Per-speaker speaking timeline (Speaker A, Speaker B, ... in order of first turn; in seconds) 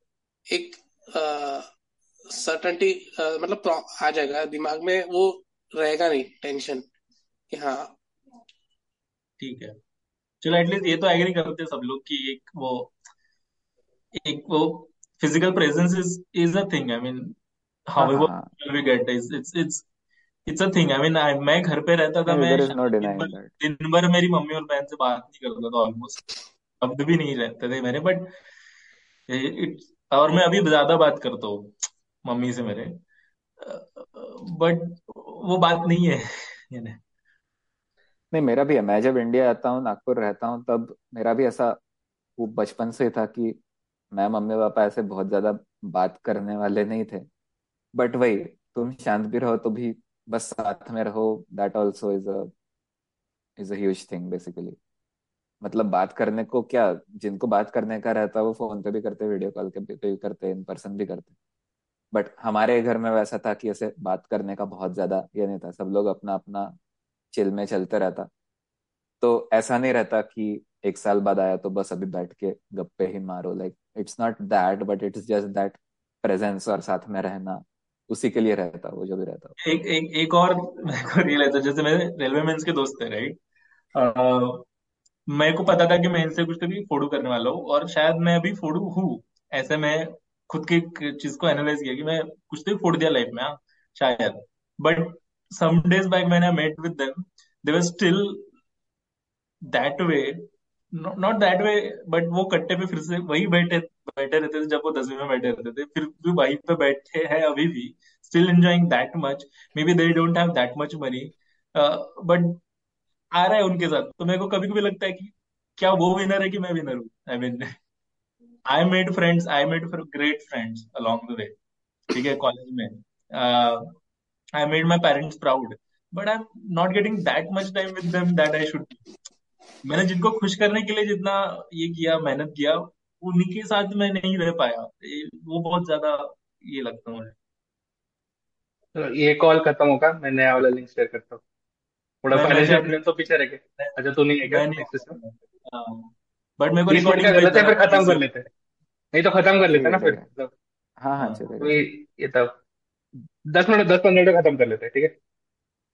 Speaker A: 0.5-1.7, 2.3-6.9, 7.5-8.0
Speaker B: 9.4-9.7, 10.4-12.9, 14.2-17.4, 17.9-19.8, 20.5-26.3, 26.8-28.3, 29.3-33.0, 33.6-37.0, 79.6-83.4, 83.9-84.7, 85.3-98.4, 99.7-112.6, 113.3-117.7, 118.7-121.5, 122.1-123.9, 124.6-129.0, 129.8-137.3, 142.3-143.0, 143.8-148.2
Speaker C: 18.0-18.5, 22.3-23.5, 38.3-41.8, 42.4-43.6, 44.1-47.3, 47.9-52.5, 53.6-54.8, 55.6-61.3, 62.1-66.7, 67.3-68.3, 69.2-79.5, 149.7-150.3, 151.0-151.8
Speaker D: 138.9-141.4, 142.2-145.2, 146.9-148.5, 149.1-150.5, 151.6-152.5, 153.5-155.1